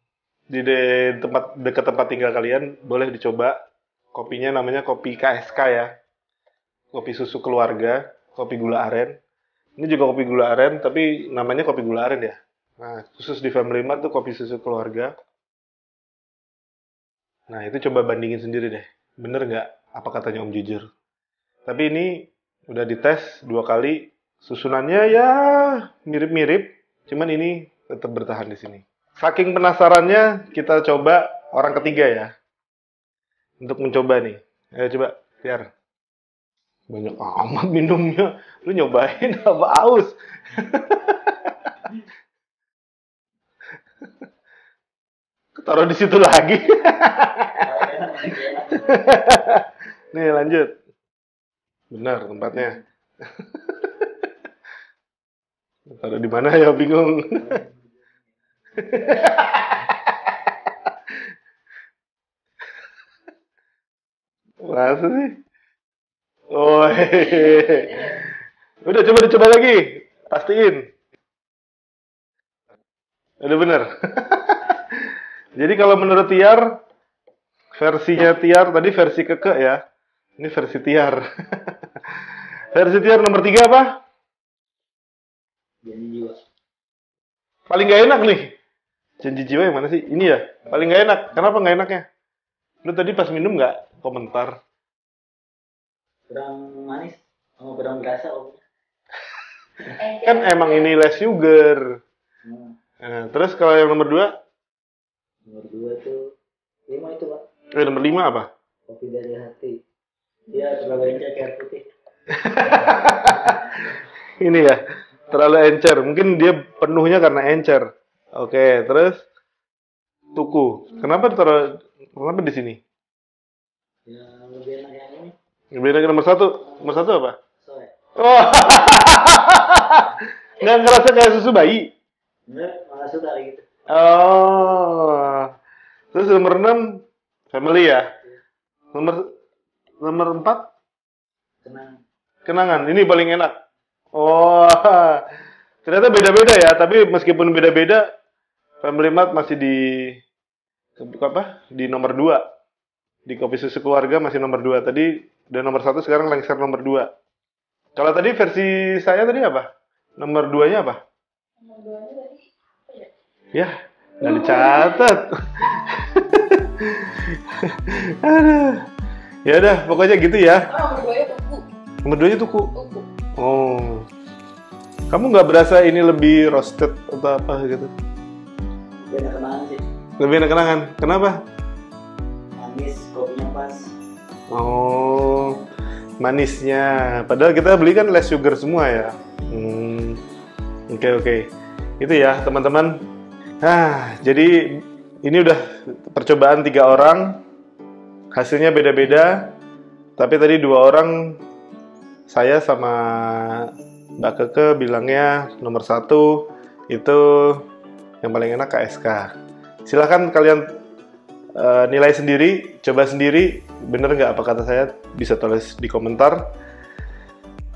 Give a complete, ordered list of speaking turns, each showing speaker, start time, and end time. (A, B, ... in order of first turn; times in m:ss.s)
0:00.5-0:03.6 A
0:04.1-0:05.9 A
0:06.9-0:09.2 A
0:09.8-0:15.1 A
0:17.5-0:20.9 A
0:21.7-0:32.3 A
0:33.6-0:35.7 A
0:36.9-0:41.8 A
0:45.6-0:47.7 A
0:47.6-0:49.0 B
0:48.8-0:50.7 A
0:51.9-0:52.8 A
0:53.4-0:54.2 A
0:55.9-0:57.6 A
0:57.5-0:57.7 B
0:58.8-1:01.0 A
1:04.6-1:05.3 A
1:06.5-1:10.8 A
1:07.1-1:08.2 C
1:13.4-1:15.0 A
1:15.6-1:16.7 A
1:17.8-1:19.8 A
1:20.4-1:21.8 A
1:22.7-1:23.9 A
1:25.8-1:26.4 B
1:27.7-1:28.5 A
1:29.2-1:32.1 A
1:32.8-1:34.6 A
1:36.3-1:38.6 B
1:40.0-1:41.0 C
1:40.2-1:41.8 A
1:42.4-1:42.7 B
1:43.0-1:44.3 A
1:45.5-1:46.2 B
1:46.9-1:47.4 B
1:47.8-1:48.5 A
1:48.9-1:49.7 B
1:50.5-1:51.8 B
1:52.3-1:59.2 A
1:52.8-1:53.6 B
2:00.4-2:02.8 A
2:04.1-2:05.4 B
2:05.8-2:07.4 A
2:07.6-2:07.9 B
2:08.2-2:11.9 A
2:12.5-2:13.6 B
2:13.9-2:15.5 A
2:16.1-2:16.8 A
2:17.5-2:18.0 A
2:18.9-2:19.2 A
2:20.0-2:20.7 A
2:21.6-2:21.9 B
2:22.4-2:23.5 A
2:24.1-2:25.2 A
2:25.8-2:28.0 A
2:28.8-2:30.2 A
2:31.0-2:32.4 A
2:33.3-2:37.1 A
2:38.0-2:39.7 A
2:40.2-2:41.0 A
2:41.6-2:43.1 C
2:43.5-2:48.8 A
2:44.2-2:45.1 C
2:49.5-2:50.7 A
2:50.7-2:51.7 C
2:52.0-2:52.7 A
2:52.7-2:53.1 C
2:53.4-2:54.1 A
2:55.1-2:57.9 A
2:59.1-2:59.8 B
3:00.2-3:01.4 A
3:02.6-3:03.9 B
3:04.5-3:05.6 A
3:06.2-3:10.2 A
3:10.9-3:11.5 A
3:12.0-3:13.0 A
3:13.6-3:14.6 A
3:15.2-3:17.4 A
3:18.3-3:19.3 A
3:20.2-3:21.3 A
3:22.3-3:27.6 A
3:28.2-3:29.3 A
3:29.9-3:30.7 A
3:31.6-3:36.4 A